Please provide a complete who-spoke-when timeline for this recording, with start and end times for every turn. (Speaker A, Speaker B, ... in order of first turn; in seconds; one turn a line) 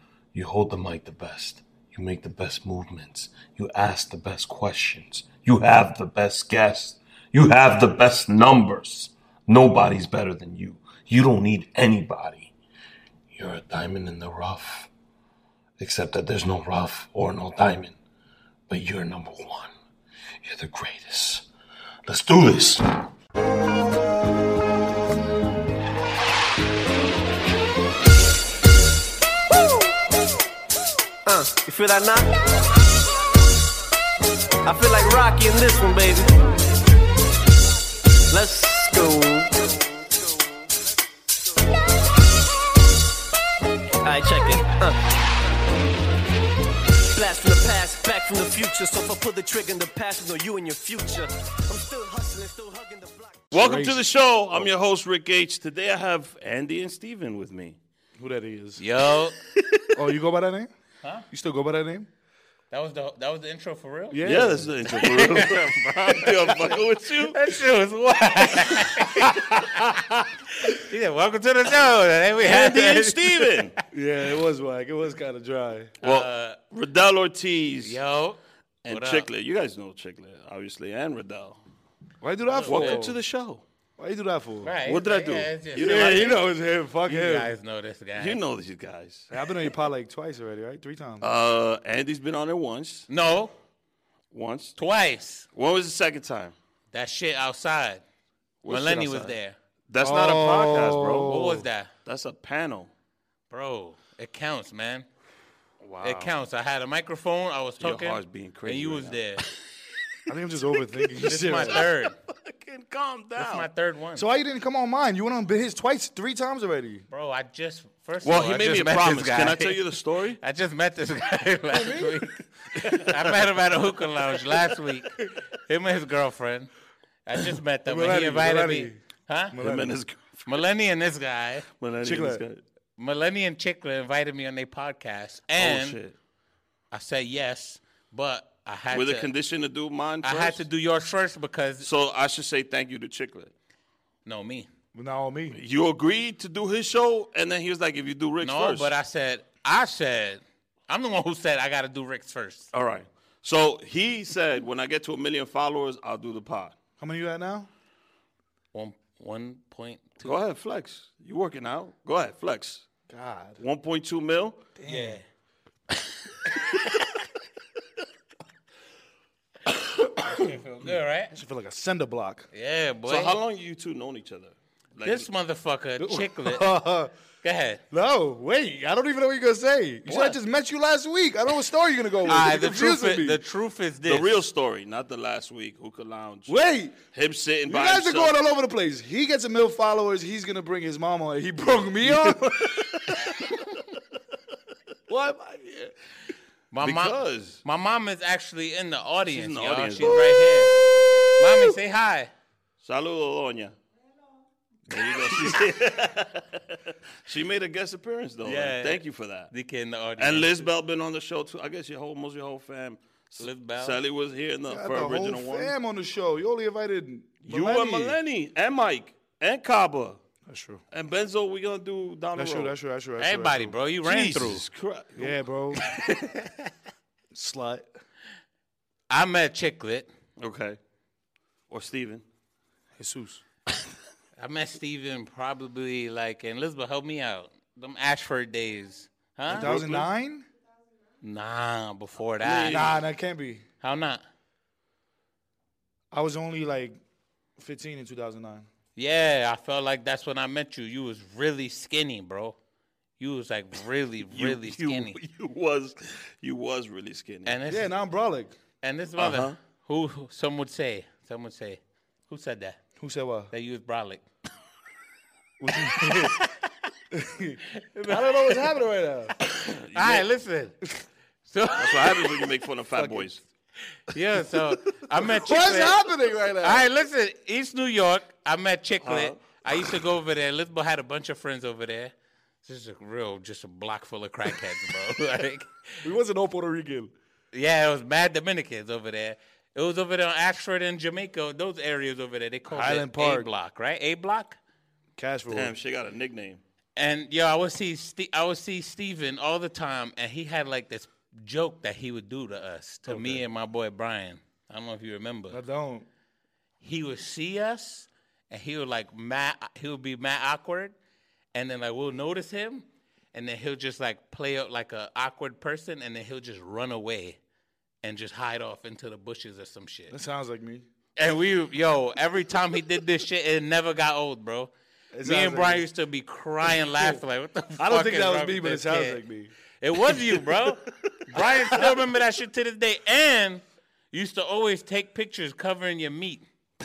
Speaker A: 0.3-12.5
Speaker B: 0.3-1.7
Speaker B: 3.3-6.9
Speaker B: 7.5-12.5
Speaker A: 13.3-14.7
Speaker B: 13.4-14.9
Speaker A: 15.8-17.9
Speaker B: 16.1-17.2
Speaker A: 18.7-19.6
Speaker B: 18.7-19.7
Speaker A: 20.4-21.3
Speaker B: 20.8-21.4
Speaker A: 22.1-22.5
Speaker B: 22.1-22.8
Speaker C: 29.5-30.1
Speaker C: 31.2-32.3
Speaker C: 34.6-36.3
Speaker C: 38.3-40.7
Speaker C: 44.0-45.0
Speaker C: 47.1-53.5
Speaker D: 53.5-54.0
Speaker A: 53.5-57.8
Speaker D: 58.2-58.8
Speaker E: 58.8-59.4
Speaker A: 59.6-59.9
Speaker D: 59.9-60.7
Speaker D: 61.3-62.1
Speaker E: 62.7-64.3
Speaker D: 64.1-64.7
Speaker A: 64.2-67.4
Speaker E: 64.9-69.8
Speaker E: 70.5-73.7
Speaker A: 72.4-73.7
Speaker D: 73.9-76.0
Speaker E: 76.0-76.6
Speaker A: 76.0-78.0
Speaker E: 77.8-79.3
Speaker A: 78.8-81.6
Speaker D: 82.2-83.2
Speaker E: 82.5-83.0
Speaker A: 82.7-83.6
Speaker D: 84.0-84.8
Speaker E: 84.6-86.4
Speaker A: 84.9-86.3
Speaker D: 85.8-87.5
Speaker E: 87.1-88.4
Speaker A: 88.2-89.4
Speaker D: 89.3-91.3
Speaker A: 91.2-93.1
Speaker E: 93.1-93.5
Speaker A: 94.3-94.8
Speaker E: 94.8-95.5
Speaker A: 95.5-96.5
Speaker E: 96.9-98.0
Speaker A: 98.6-99.4
Speaker E: 98.7-99.6
Speaker A: 99.9-101.4
Speaker D: 100.0-101.7
Speaker E: 101.3-101.9
Speaker A: 102.0-102.9
Speaker E: 103.5-105.1
Speaker A: 105.8-106.3
Speaker E: 106.0-109.5
Speaker A: 107.8-109.2
Speaker D: 110.3-111.8
Speaker E: 111.2-112.2
Speaker A: 111.7-113.7
Speaker E: 113.4-114.2
Speaker D: 114.2-117.1
Speaker E: 117.1-119.8
Speaker A: 118.2-120.4
Speaker E: 120.4-126.7
Speaker D: 121.7-122.3
Speaker E: 127.3-129.6
Speaker D: 127.9-129.0
Speaker D: 129.5-130.0
Speaker A: 129.6-130.6
Speaker E: 130.5-131.7
Speaker A: 131.7-132.6
Speaker D: 132.0-132.4
Speaker E: 133.0-136.0
Speaker A: 135.6-136.2
Speaker E: 136.9-139.3
Speaker A: 138.9-140.6
Speaker E: 140.2-141.9
Speaker A: 141.8-143.5
Speaker E: 144.2-144.7
Speaker D: 144.9-145.6
Speaker A: 145.5-148.9
Speaker E: 148.4-152.7
Speaker A: 152.7-156.8
Speaker D: 157.0-157.7
Speaker E: 158.7-160.4
Speaker A: 160.2-162.9
Speaker D: 163.1-163.6
Speaker A: 163.6-164.6
Speaker D: 164.8-165.2
Speaker E: 164.9-165.2
Speaker E: 166.6-166.9
Speaker E: 170.2-171.3
Speaker D: 171.3-172.5
Speaker E: 172.5-173.4
Speaker A: 173.1-175.3
Speaker E: 175.0-176.7
Speaker D: 176.0-177.1
Speaker E: 177.4-177.8
Speaker D: 177.9-183.4
Speaker A: 180.1-180.4
Speaker E: 182.2-184.4
Speaker A: 184.1-186.6
Speaker D: 186.5-187.0
Speaker A: 187.1-188.3
Speaker D: 187.7-193.3
Speaker A: 191.8-192.9
Speaker D: 195.1-195.9
Speaker E: 196.7-200.8
Speaker A: 196.8-197.6
Speaker A: 199.3-200.5
Speaker E: 201.4-202.3
Speaker A: 202.8-203.8
Speaker A: 204.9-209.5
Speaker E: 208.4-210.7
Speaker A: 210.2-215.7
Speaker E: 213.4-214.0
Speaker D: 214.7-218.2
Speaker A: 217.4-220.2
Speaker D: 220.5-220.8
Speaker A: 220.9-222.8
Speaker D: 222.3-223.8
Speaker E: 223.2-224.7
Speaker A: 224.0-226.3
Speaker D: 225.2-225.8
Speaker D: 227.3-227.9
Speaker E: 229.1-230.1
Speaker A: 230.4-230.8
Speaker A: 231.7-232.2
Speaker D: 233.0-233.4
Speaker E: 234.4-240.0
Speaker A: 239.5-240.1
Speaker D: 239.5-240.5
Speaker E: 241.2-242.9
Speaker A: 242.4-243.0
Speaker D: 242.7-243.7
Speaker E: 243.8-244.2
Speaker D: 246.1-247.0
Speaker D: 247.6-248.7
Speaker E: 249.0-252.6
Speaker E: 253.2-255.2
Speaker A: 254.3-257.6
Speaker E: 257.5-257.9
Speaker D: 257.7-258.5
Speaker E: 258.8-262.8
Speaker A: 259.2-259.6
Speaker D: 263.0-263.5
Speaker E: 263.5-264.2
Speaker D: 265.6-266.4
Speaker E: 266.2-266.6
Speaker D: 267.1-269.4
Speaker E: 267.7-268.7
Speaker A: 269.5-270.3
Speaker E: 269.9-270.8
Speaker E: 271.5-272.3
Speaker A: 271.8-273.4
Speaker D: 273.0-273.3
Speaker E: 274.1-276.0
Speaker D: 275.2-276.9
Speaker E: 276.6-282.1
Speaker A: 279.0-279.9
Speaker E: 282.6-286.0
Speaker D: 286.0-287.1
Speaker E: 287.5-294.6
Speaker D: 292.7-293.5
Speaker D: 295.2-295.7
Speaker A: 295.5-296.6
Speaker E: 297.0-305.6
Speaker D: 303.1-303.4
Speaker D: 305.5-306.1
Speaker E: 306.8-310.9
Speaker E: 311.5-317.4
Speaker E: 318.0-320.2
Speaker D: 320.1-320.9
Speaker E: 321.2-324.7
Speaker D: 325.1-325.9
Speaker E: 325.2-329.2
Speaker D: 326.9-327.2
Speaker D: 327.8-329.5
Speaker E: 329.8-336.4
Speaker D: 331.4-331.9